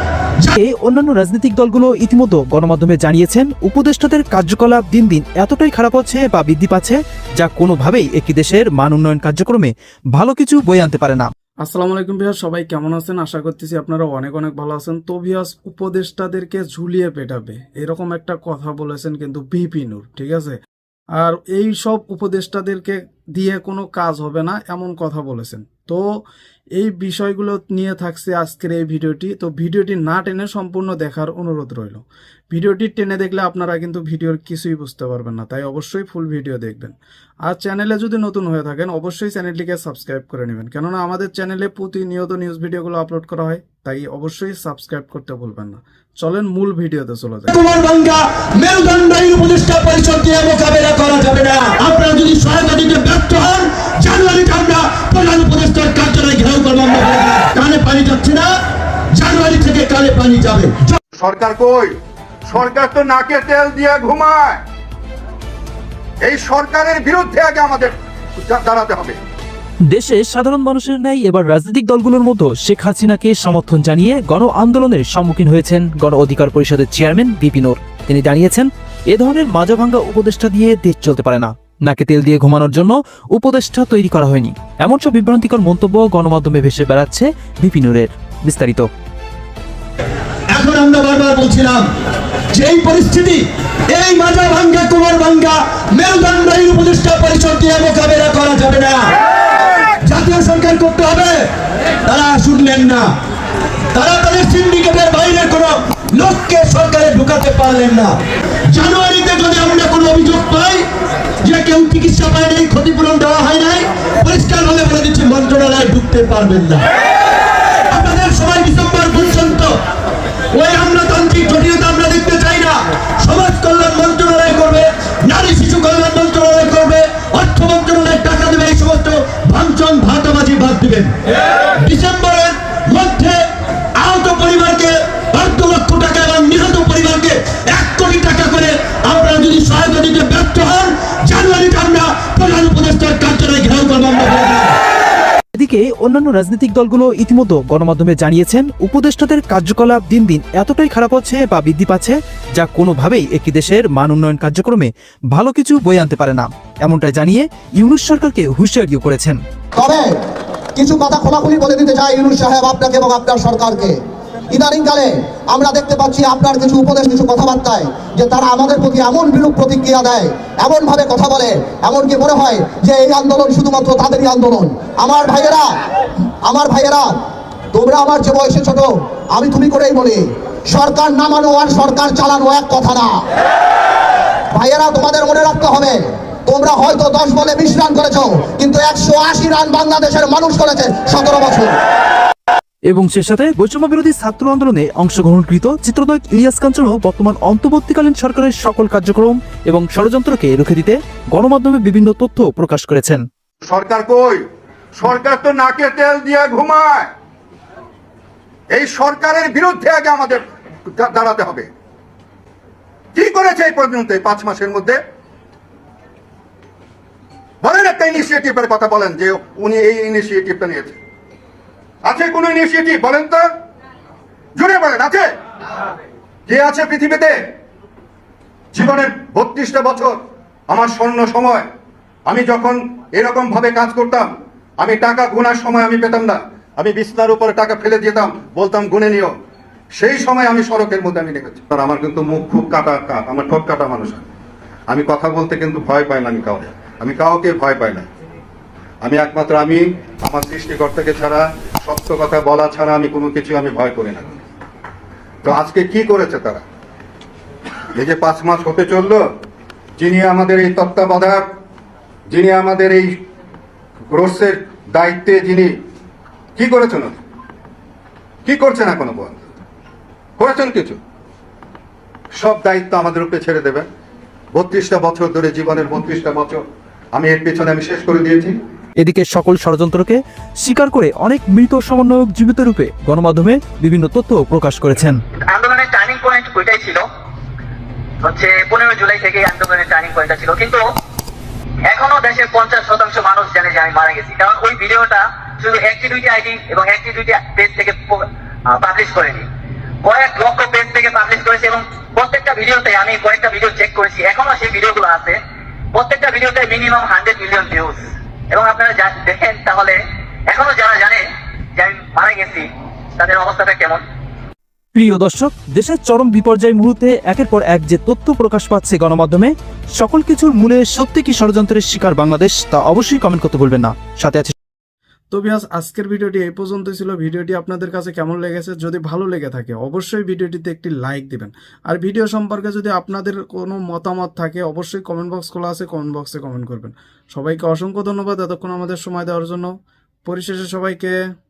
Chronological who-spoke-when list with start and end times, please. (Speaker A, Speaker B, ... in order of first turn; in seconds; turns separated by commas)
Speaker A: 0.5-11.3, Speaker B: 11.6-20.6, Speaker B: 21.1-26.2, Speaker B: 26.8-47.5, Speaker C: 47.5-58.5, Speaker C: 59.1-61.0, Speaker D: 61.1-61.9, Speaker D: 62.5-64.6, Speaker D: 66.2-69.2, Speaker A: 69.9-88.8, Speaker C: 90.5-91.9, Speaker C: 92.5-99.1, Speaker C: 100.0-101.4, Speaker C: 102.0-103.1, Speaker C: 103.9-108.1, Speaker C: 108.7-110.8, Speaker C: 111.4-116.9, Speaker C: 117.9-119.7, Speaker C: 120.5-131.1, Speaker C: 131.7-133.4, Speaker C: 133.9-144.7, Speaker A: 145.5-159.4, Speaker E: 159.8-160.1, Speaker E: 160.8-163.9, Speaker E: 164.5-175.7, Speaker E: 176.4-177.1, Speaker E: 177.7-183.2, Speaker E: 184.5-191.8, Speaker A: 192.9-203.2, Speaker D: 203.6-204.4, Speaker D: 204.9-207.1, Speaker D: 208.7-211.7, Speaker D: 213.1-215.0, Speaker D: 217.6-221.0, Speaker D: 222.0-223.5, Speaker D: 224.6-225.3, Speaker D: 226.5-227.4, Speaker D: 228.7-231.7, Speaker D: 232.3-239.3, Speaker D: 239.9-244.2, Speaker D: 244.9-248.1, Speaker D: 249.0-254.3, Speaker D: 255.4-256.6, Speaker D: 257.9-259.2, Speaker D: 260.0-261.5, Speaker D: 262.3-263.2, Speaker D: 264.1-265.8, Speaker D: 266.6-267.2, Speaker D: 268.4-269.4, Speaker D: 270.4-271.0, Speaker D: 272.3-273.9, Speaker D: 274.5-276.6, Speaker D: 277.1-278.5, Speaker A: 279.0-285.2, Speaker F: 285.4-287.0, Speaker F: 288.2-290.9, Speaker F: 291.9-299.5, Speaker F: 300.0-305.4, Speaker F: 305.9-310.0, Speaker F: 310.5-311.2, Speaker F: 311.8-312.6, Speaker F: 313.2-314.0, Speaker A: 314.9-324.5, Speaker B: 325.3-339.7, Speaker B: 340.2-341.1